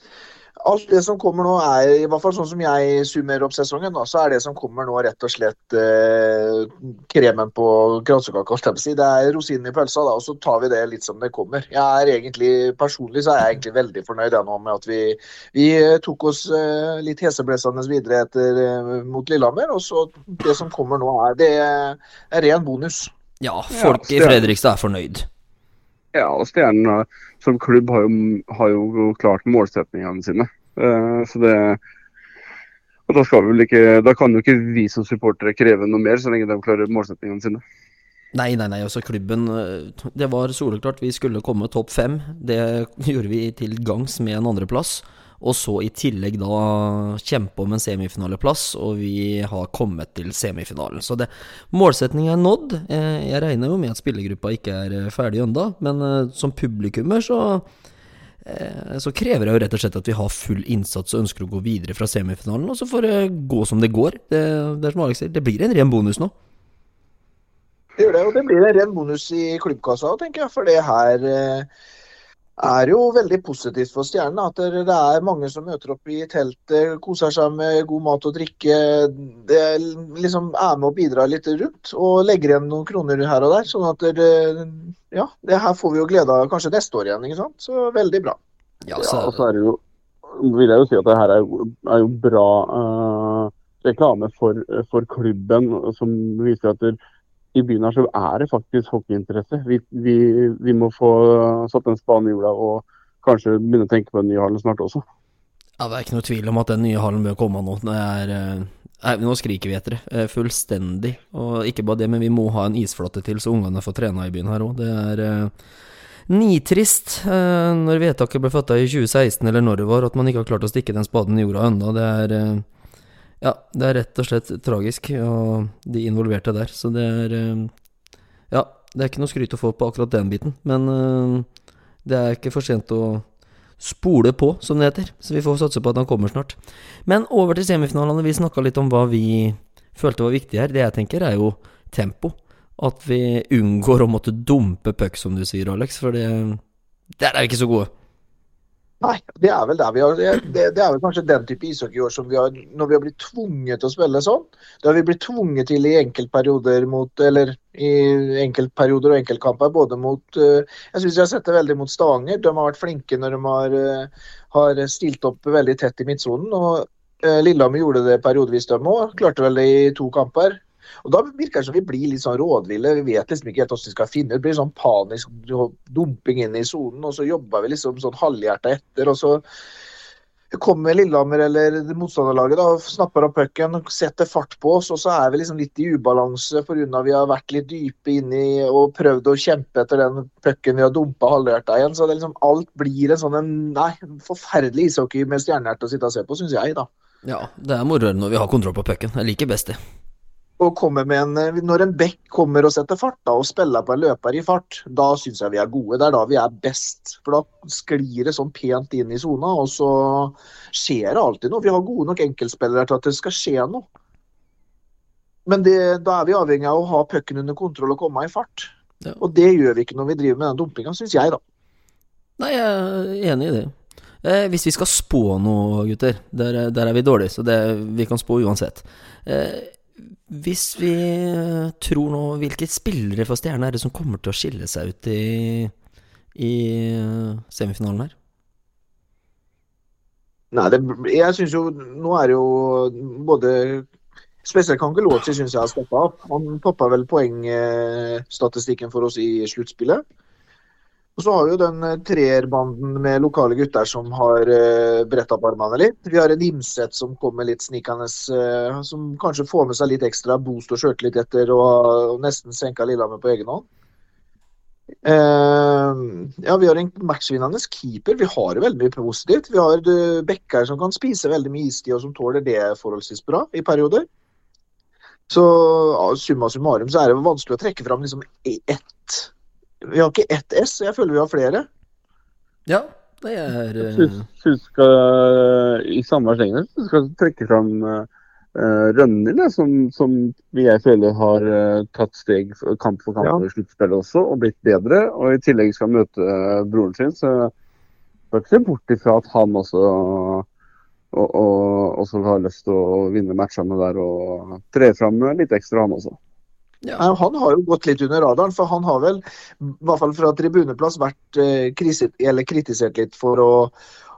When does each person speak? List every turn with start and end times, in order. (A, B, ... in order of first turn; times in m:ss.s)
0:00.6-0:23.1 A
0:23.4-0:25.3 B
0:23.7-0:24.5 C
0:26.1-0:31.8 C
0:33.1-0:37.6 C
0:38.3-0:57.6 B
0:58.4-1:06.3 B
1:08.0-1:11.7 A
1:12.6-1:28.4 A
1:28.9-1:29.4 B
1:29.0-1:37.0 C
1:37.5-1:45.0 C
1:45.8-1:55.5 B
1:56.3-2:02.6 B
2:03.4-2:07.7 B
2:08.5-2:11.5 B
2:12.0-2:13.2 B
2:13.8-2:26.6 B
2:27.2-2:27.9 B
2:29.0-2:59.4 A
3:00.5-3:16.9 A
3:17.2-3:19.8 B
3:20.6-3:33.9 A
3:35.5-3:41.4 A
3:42.4-3:55.7 B
3:56.4-3:58.1 B
4:00.5-4:03.9 A
4:04.4-4:10.0 A
4:11.2-4:23.7 A
4:25.0-4:34.1 A
4:35.3-4:39.3 A
4:39.8-4:41.7 A
4:42.7-4:44.2 B
4:43.8-4:57.5 C
4:58.3-5:00.4 C
5:01.1-5:06.2 C
5:07.0-5:13.7 A